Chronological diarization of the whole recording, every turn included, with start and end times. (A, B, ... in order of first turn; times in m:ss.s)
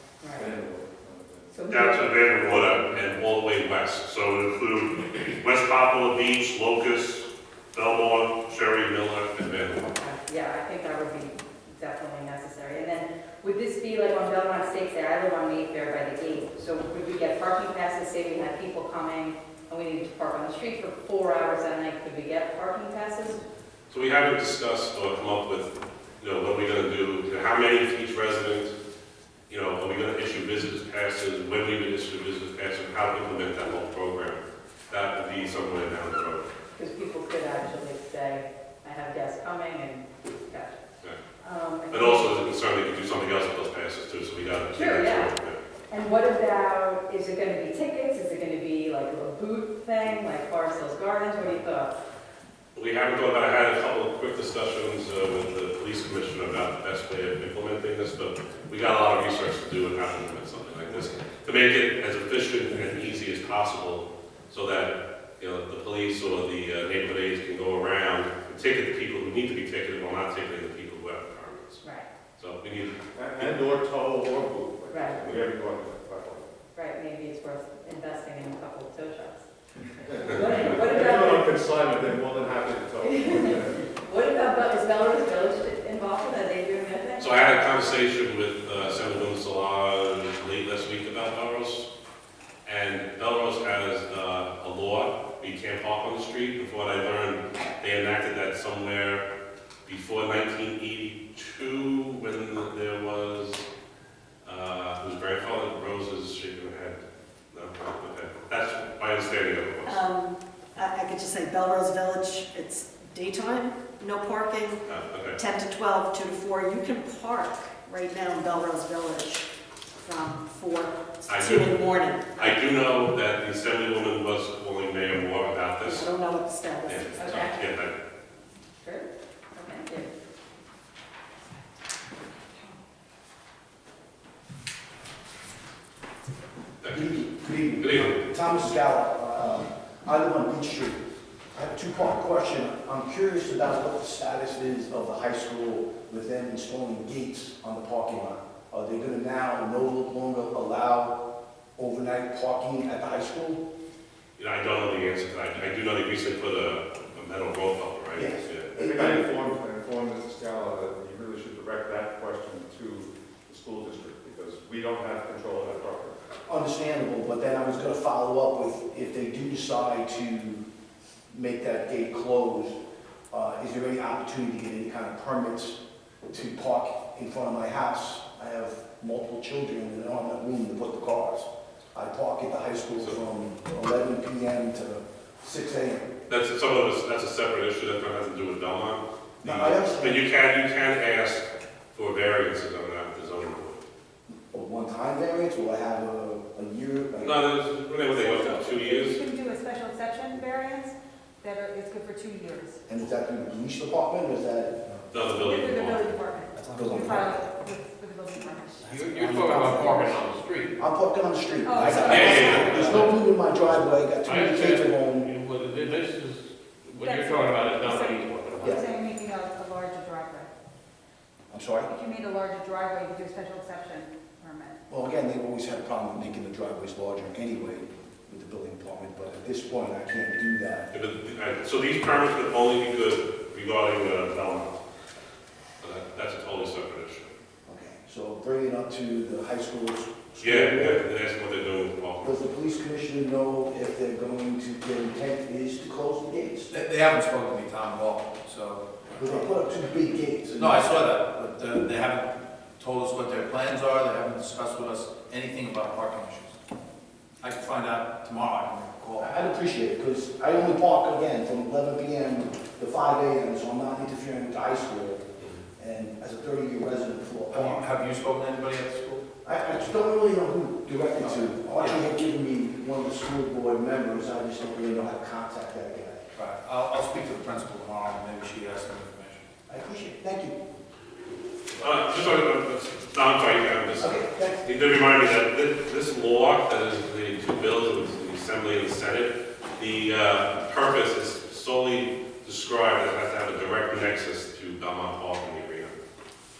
0:00.2-0:00.5 A
0:00.4-0:01.5 B
0:01.5-0:02.8 A
0:01.7-0:09.9 C
0:09.9-0:23.4 A
0:23.9-0:28.8 C
0:29.5-0:36.5 C
0:36.7-0:40.8 A
0:41.4-0:42.4 A
0:41.9-0:45.6 C
0:44.7-0:45.3 A
0:45.9-0:51.9 A
0:52.8-1:11.8 C
1:11.8-1:12.1 A
1:12.4-1:13.0 C
1:13.2-1:16.5 B
1:14.9-1:15.2 A
1:16.8-1:19.4 A
1:20.1-1:23.8 B
1:20.2-1:21.5 A
1:20.3-1:20.6 C
1:23.0-1:27.8 A
1:27.2-1:31.9 C
1:32.6-1:39.2 C
1:39.9-1:43.7 C
1:44.4-1:47.0 C
1:47.5-1:50.0 C
1:49.9-1:54.8 D
1:54.9-1:55.4 C
1:55.4-1:59.5 D
2:00.0-2:02.6 D
2:01.3-2:06.1 C
2:05.8-2:07.2 D
2:06.8-2:07.9 C
2:07.2-2:07.6 A
2:08.8-2:10.1 A
2:16.8-2:17.2 C
2:16.9-2:21.0 E
2:17.8-2:18.2 C
2:21.6-2:31.2 E
2:31.8-2:33.6 E
2:34.4-2:38.7 C
2:38.1-2:39.3 E
2:38.7-2:46.2 B
2:46.5-2:50.6 E
2:51.3-2:52.8 E
2:53.3-2:55.8 E
2:56.3-3:06.1 E
3:06.3-3:13.8 C
3:09.4-3:10.2 E
3:14.5-3:17.4 E
3:17.2-3:19.2 C
3:18.1-3:22.8 F
3:22.9-3:24.9 E
3:25.1-3:26.1 C
3:25.4-3:30.1 F
3:26.6-3:27.5 E
3:28.8-3:30.8 G
3:28.9-3:30.2 E
3:30.8-3:35.3 E
3:31.6-3:33.2 F
3:31.9-3:33.1 C
3:33.5-3:38.8 G
3:37.0-3:40.5 F
3:41.5-3:41.9 E
3:41.9-3:44.8 F
3:44.9-3:50.9 E
3:50.9-3:54.8 C
3:55.8-3:57.3 C
3:57.7-4:01.0 E
4:00.4-4:02.3 C
4:02.2-4:06.7 E
4:06.7-4:08.8 H
4:09.2-4:11.1 E
4:10.6-4:16.6 H
4:17.4-4:19.4 H
4:19.2-4:25.2 E
4:25.8-4:27.9 E
4:27.5-4:29.2 H
4:29.4-4:36.2 E
4:31.2-4:32.0 H
4:36.4-4:39.4 H
4:39.7-4:40.6 E
4:41.8-4:56.0 C
4:44.0-4:44.6 E